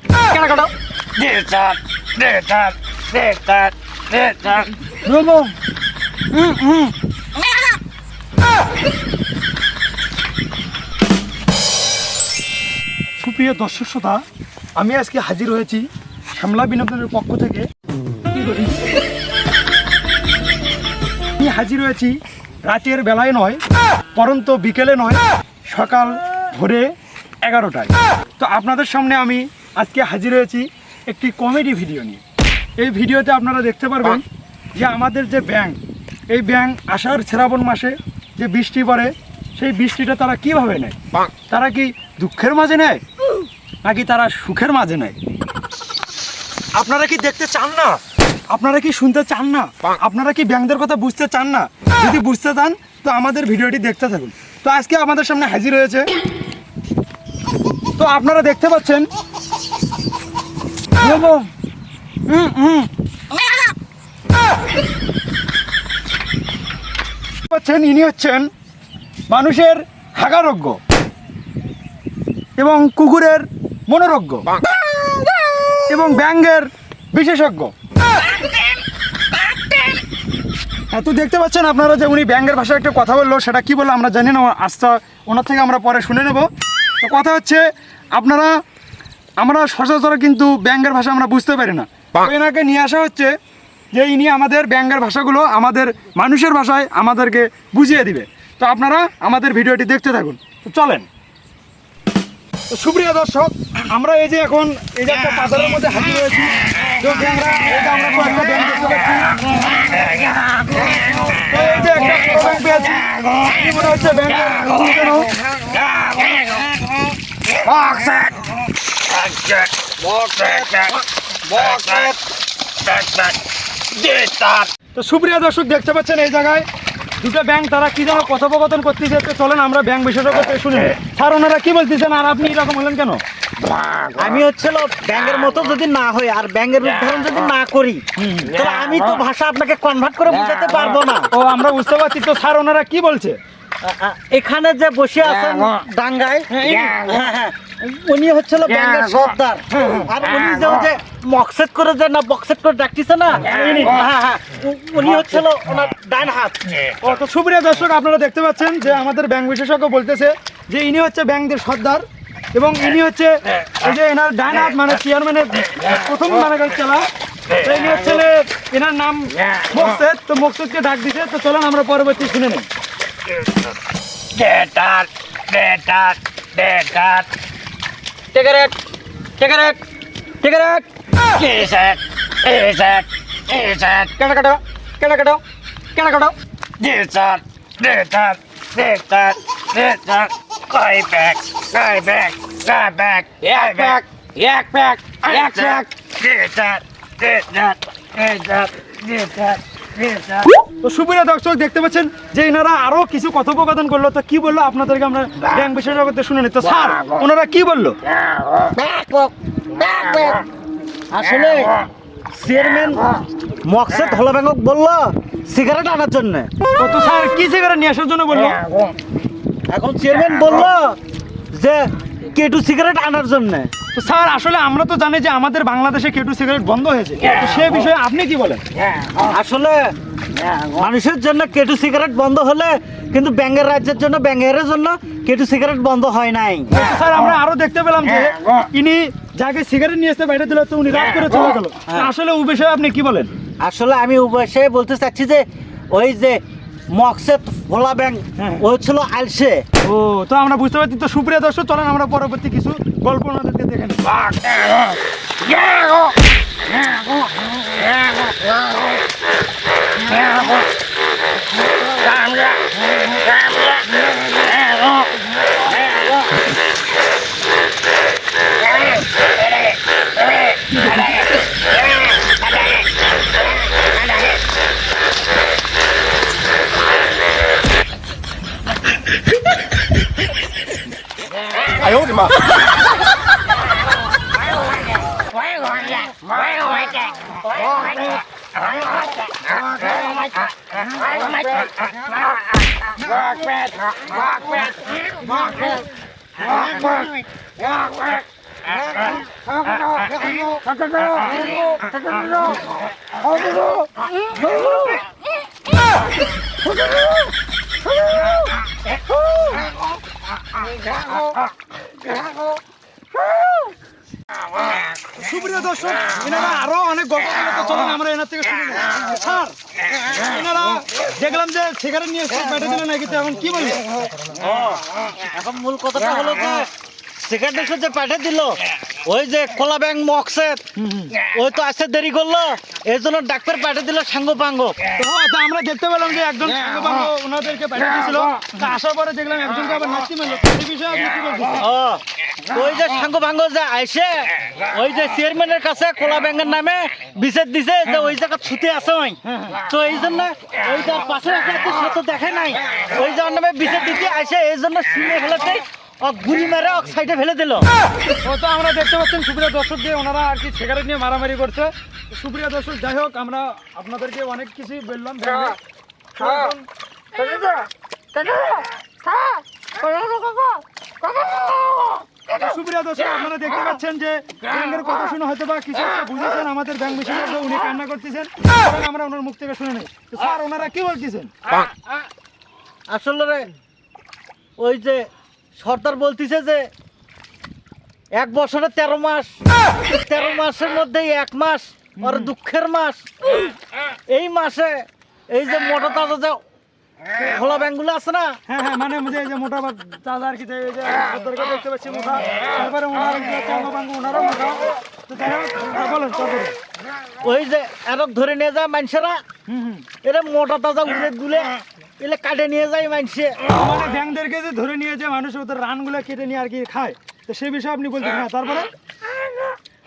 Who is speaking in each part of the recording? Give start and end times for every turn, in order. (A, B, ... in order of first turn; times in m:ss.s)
0:00.3-0:00.7 A
0:01.2-0:04.7 B
0:05.0-0:05.5 A
0:06.4-0:06.9 A
0:13.2-0:14.2 A
0:14.8-0:17.7 A
0:18.3-0:18.9 A
0:21.4-0:23.6 A
0:24.1-0:32.2 A
0:32.8-0:34.2 A
0:34.8-0:35.8 A
0:36.3-0:43.0 A
0:43.8-0:45.2 A
0:46.8-0:56.1 A
0:58.0-0:59.1 A
1:01.0-1:01.5 A
1:02.3-1:02.9 A
1:07.5-1:08.5 A
1:09.3-1:10.8 A
1:12.6-1:14.5 A
1:15.9-1:17.7 A
1:20.9-1:26.5 A
1:27.0-1:28.5 A
1:29.4-1:33.4 A
1:33.9-1:41.1 A
1:42.7-1:49.4 A
1:51.4-1:55.3 A
1:57.8-1:58.3 B
1:59.2-2:01.0 B
2:01.5-2:02.2 B
2:02.9-2:03.3 B
2:04.0-2:04.7 B
2:05.0-2:06.7 A
2:07.2-2:13.2 A
2:14.2-2:21.3 C
2:18.2-2:18.6 A
2:21.3-2:23.4 A
2:23.8-2:36.6 C
2:26.6-2:26.9 A
2:29.7-2:30.1 A
2:33.4-2:34.0 A
2:37.0-2:52.7 A
2:54.4-2:57.2 C
2:56.7-2:57.1 B
2:58.3-2:58.7 C
2:59.4-2:59.8 C
3:00.4-3:00.8 C
3:01.4-3:01.9 C
3:01.6-3:02.9 B
3:02.5-3:05.4 C
3:06.0-3:07.4 C
3:06.9-3:08.4 B
3:08.8-3:09.4 C
3:09.3-3:19.6 B
3:12.8-3:14.0 C
3:15.5-3:15.8 C
3:16.4-3:16.8 C
3:20.8-3:28.0 A
3:28.7-3:30.4 C
3:31.1-3:33.1 C
3:33.6-3:36.5 C
3:36.8-3:38.6 A
3:39.7-3:41.0 C
3:41.5-3:43.7 C
3:43.9-3:48.6 A
3:49.2-3:50.0 C
3:50.5-3:56.7 C
3:56.7-4:03.3 A
4:03.6-4:09.6 C
4:08.4-4:08.6 A
4:09.8-4:14.1 A
5:15.2-5:19.6 A
5:20.1-5:23.9 A
5:24.3-5:34.8 C
5:30.8-5:31.2 A
5:34.9-5:41.6 A
5:41.6-5:57.7 C
5:49.3-5:49.6 A
5:58.2-6:05.6 A
6:06.2-6:06.6 A
6:10.1-6:10.4 B
6:12.3-6:21.3 A
6:22.9-6:23.5 C
6:24.6-6:26.7 C
6:28.2-6:33.4 C
6:32.0-6:32.3 A
6:34.1-6:36.4 C
6:37.1-6:38.4 C
6:38.5-6:46.6 A
6:47.2-6:49.2 C
6:49.5-6:49.9 A
6:50.0-6:53.4 C
6:53.5-6:58.7 A